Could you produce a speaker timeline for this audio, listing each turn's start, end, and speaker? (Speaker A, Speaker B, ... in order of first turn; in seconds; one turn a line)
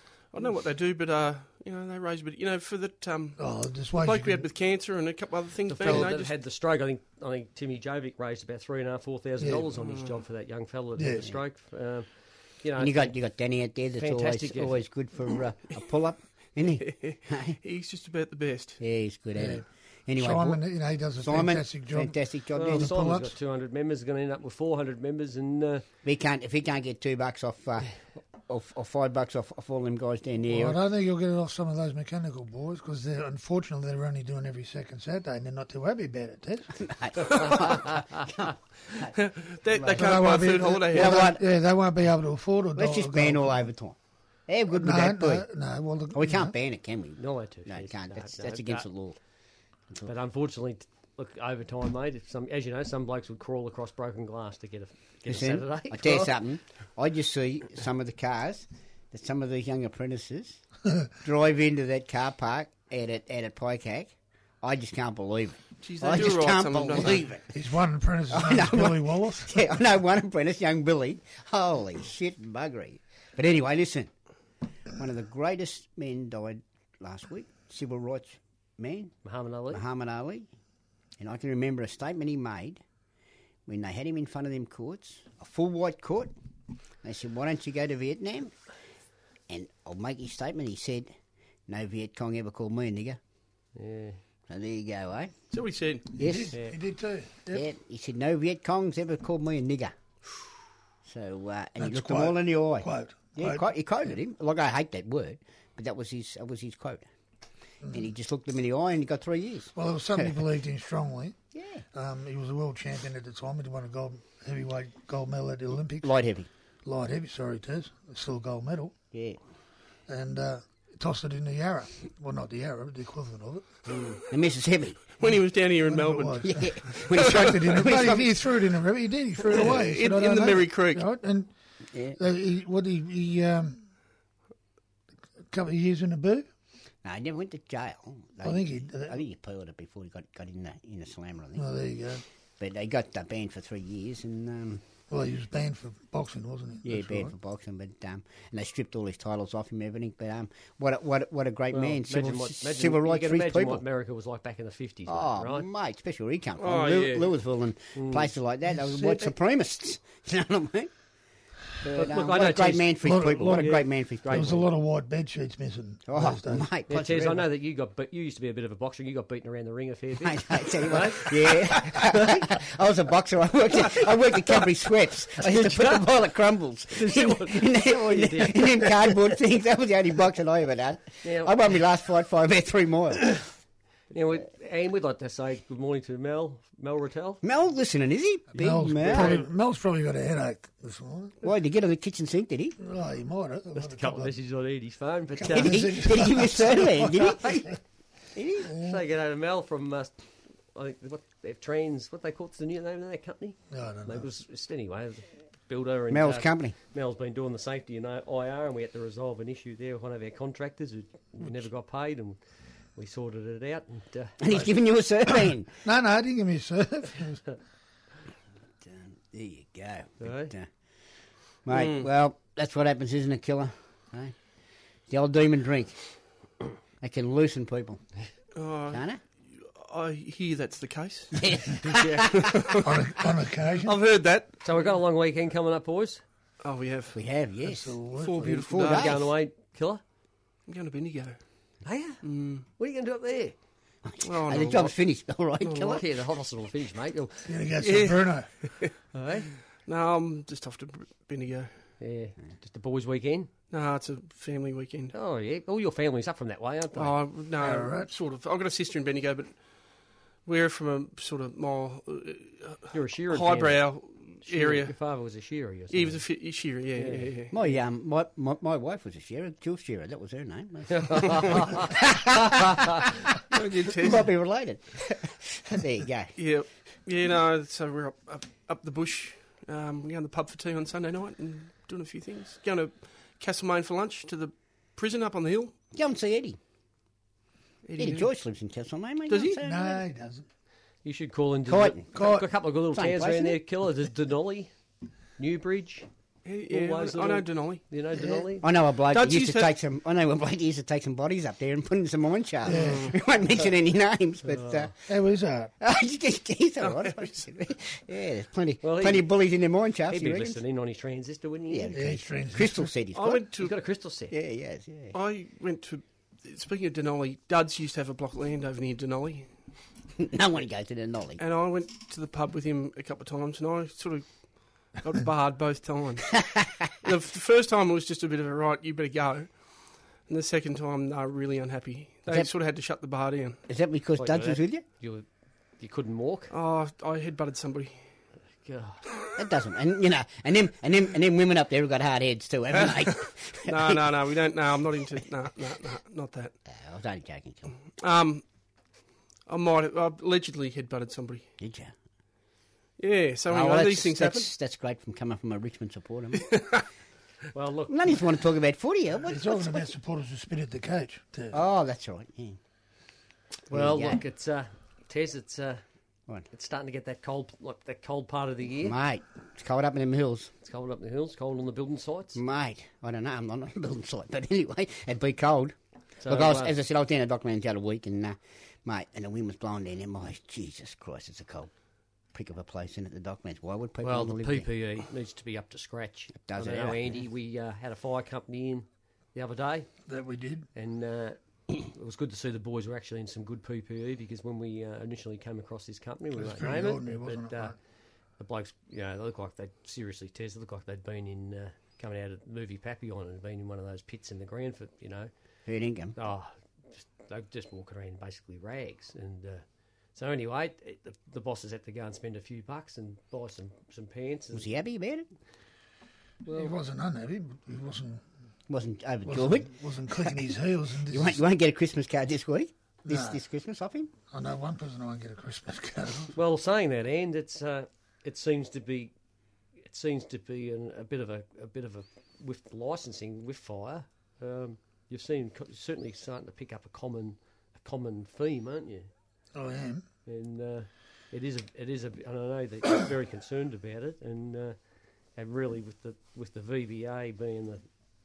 Speaker A: 0.2-6.3
Speaker B: 3.4-4.5
Speaker C: 5.7-12.1
Speaker B: 9.4-9.7
Speaker A: 9.8-10.2
Speaker B: 11.0-11.3
Speaker C: 12.6-13.1
Speaker D: 12.8-17.6
Speaker C: 14.0-14.8
Speaker A: 16.8-18.8
Speaker D: 18.8-20.6
Speaker B: 19.4-19.6
Speaker B: 20.2-22.2
Speaker D: 21.2-23.0
Speaker C: 22.6-25.9
Speaker B: 22.7-23.4
Speaker D: 26.0-27.9
Speaker D: 28.5-30.8
Speaker B: 30.5-36.9
Speaker D: 36.8-39.1
Speaker A: 39.0-41.3
Speaker D: 39.8-40.2
Speaker B: 40.0-43.6
Speaker D: 40.9-41.4
Speaker D: 42.8-44.0
Speaker D: 44.5-45.5
Speaker B: 44.7-46.5
Speaker D: 46.1-49.2
Speaker C: 47.2-48.9
Speaker C: 50.0-56.3
Speaker D: 55.3-60.6
Speaker D: 61.2-67.5
Speaker A: 65.8-67.3
Speaker B: 67.5-69.6
Speaker D: 68.3-74.1
Speaker D: 74.9-79.1
Speaker C: 79.2-79.8
Speaker D: 79.7-80.5
Speaker D: 81.2-82.8
Speaker D: 83.7-86.3
Speaker D: 87.0-88.5
Speaker D: 89.5-91.1
Speaker D: 91.7-93.2
Speaker C: 93.8-94.2
Speaker D: 94.5-95.3
Speaker A: 95.5-96.1
Speaker B: 96.2-97.7
Speaker D: 96.2-96.6
Speaker D: 97.5-99.9
Speaker D: 101.1-107.1
Speaker B: 101.8-103.7
Speaker D: 107.9-110.4
Speaker B: 109.8-111.4
Speaker D: 111.5-111.8
Speaker B: 111.9-116.1
Speaker D: 116.0-116.5
Speaker B: 116.8-118.9
Speaker D: 119.1-119.4
Speaker B: 120.1-123.8
Speaker D: 124.3-125.0
Speaker A: 125.2-128.2
Speaker B: 125.8-131.5
Speaker D: 126.4-128.3
Speaker A: 129.4-131.1
Speaker D: 131.9-132.2
Speaker B: 132.2-133.8
Speaker B: 135.5-136.5
Speaker D: 137.0-141.7
Speaker B: 138.4-139.2
Speaker B: 141.6-142.2
Speaker D: 142.6-144.8
Speaker B: 145.1-147.3
Speaker D: 146.8-153.8
Speaker C: 151.7-155.7
Speaker D: 155.1-160.9
Speaker A: 156.6-157.3
Speaker C: 157.9-158.3
Speaker B: 158.7-159.3
Speaker D: 161.8-164.6
Speaker C: 161.9-164.7
Speaker B: 163.0-166.7
Speaker D: 166.1-167.5
Speaker C: 166.9-172.4
Speaker D: 170.2-183.4
Speaker C: 175.4-176.1
Speaker C: 176.9-179.0
Speaker C: 181.2-181.5
Speaker C: 184.1-187.4
Speaker D: 187.4-189.5
Speaker B: 188.5-191.4
Speaker D: 191.4-192.8
Speaker B: 192.8-194.3
Speaker C: 193.8-195.8
Speaker B: 195.4-197.8
Speaker D: 195.5-197.8
Speaker D: 198.3-198.7
Speaker B: 198.7-199.0
Speaker C: 198.7-200.1
Speaker C: 200.7-212.4
Speaker B: 203.7-204.3
Speaker D: 206.1-206.8
Speaker C: 213.0-214.4
Speaker D: 214.4-215.7
Speaker B: 215.4-217.6
Speaker D: 218.8-220.7
Speaker C: 220.2-220.5
Speaker D: 221.7-224.3
Speaker A: 221.7-222.1
Speaker D: 225.1-226.0
Speaker D: 227.0-228.0
Speaker A: 228.6-231.6
Speaker D: 228.9-229.2
Speaker D: 231.3-232.7
Speaker C: 231.8-232.3
Speaker A: 232.3-233.0
Speaker B: 232.8-233.9
Speaker A: 233.8-234.6
Speaker C: 234.6-236.2
Speaker A: 236.6-237.2
Speaker D: 237.1-239.3
Speaker B: 237.6-238.7
Speaker A: 238.2-239.2
Speaker C: 238.8-240.0
Speaker A: 240.7-241.4
Speaker C: 241.8-243.6
Speaker A: 242.2-242.7
Speaker D: 244.0-246.1
Speaker A: 244.2-244.9
Speaker A: 245.6-246.0
Speaker C: 245.9-247.5
Speaker B: 247.5-248.5
Speaker A: 247.8-248.9
Speaker C: 249.1-249.5
Speaker A: 249.8-251.7
Speaker C: 252.0-253.5
Speaker A: 253.7-255.1
Speaker C: 255.1-257.2
Speaker A: 256.9-259.6
Speaker B: 257.6-258.1
Speaker A: 260.4-264.9
Speaker C: 262.9-263.8
Speaker C: 264.4-266.2
Speaker A: 265.9-267.6
Speaker C: 267.0-267.3
Speaker D: 267.5-276.4
Speaker C: 270.9-271.9
Speaker A: 273.5-274.3
Speaker A: 276.4-285.7
Speaker D: 285.9-286.6
Speaker A: 287.9-288.3
Speaker D: 288.0-290.0
Speaker A: 289.3-289.6
Speaker B: 289.6-290.5
Speaker C: 291.1-294.7
Speaker D: 291.7-292.1
Speaker B: 292.1-292.5
Speaker D: 292.9-293.6
Speaker C: 295.4-296.1
Speaker A: 296.4-297.8
Speaker C: 296.7-298.7
Speaker D: 298.6-304.9
Speaker A: 299.0-299.7
Speaker B: 302.7-303.1
Speaker A: 302.7-303.1
Speaker C: 304.5-304.9
Speaker B: 305.1-305.7
Speaker D: 305.8-310.6
Speaker A: 306.8-307.4
Speaker C: 308.8-309.3
Speaker C: 310.1-312.2
Speaker D: 311.7-313.5
Speaker B: 311.9-312.9
Speaker A: 313.1-313.7
Speaker C: 313.6-314.3
Speaker D: 314.3-315.1
Speaker A: 315.1-319.5
Speaker D: 320.2-321.4
Speaker A: 321.4-329.6
Speaker D: 326.4-326.8
Speaker A: 330.3-333.6
Speaker D: 333.7-334.8
Speaker C: 334.2-335.3
Speaker C: 335.8-336.5
Speaker A: 336.5-337.9
Speaker C: 338.6-339.1
Speaker D: 339.4-344.1
Speaker A: 343.6-346.6
Speaker D: 346.7-347.8
Speaker A: 348.0-348.4
Speaker A: 349.5-351.5
Speaker D: 351.6-351.9
Speaker A: 353.0-354.5
Speaker D: 353.5-356.5
Speaker A: 356.4-356.8
Speaker C: 357.5-358.2
Speaker D: 357.9-359.9
Speaker B: 359.3-361.6
Speaker D: 361.5-362.6
Speaker C: 363.7-365.8
Speaker D: 363.7-364.2
Speaker C: 366.5-369.0
Speaker D: 368.8-370.5
Speaker C: 370.6-372.4
Speaker D: 372.4-381.7
Speaker C: 376.2-376.7
Speaker D: 382.3-384.7
Speaker C: 384.0-389.9
Speaker D: 386.4-387.2
Speaker B: 390.1-390.7
Speaker C: 390.8-397.8
Speaker B: 396.4-397.8
Speaker C: 398.4-405.3
Speaker D: 405.7-406.2
Speaker C: 406.2-409.6
Speaker C: 410.1-414.7
Speaker D: 414.5-415.3
Speaker B: 416.4-418.2
Speaker C: 416.5-416.7
Speaker D: 418.7-419.7
Speaker B: 419.3-421.4
Speaker D: 421.1-424.1
Speaker B: 423.1-423.4
Speaker B: 424.3-426.4
Speaker C: 426.4-429.1
Speaker C: 429.9-439.1
Speaker B: 439.5-440.1
Speaker C: 440.3-444.8
Speaker C: 445.4-447.8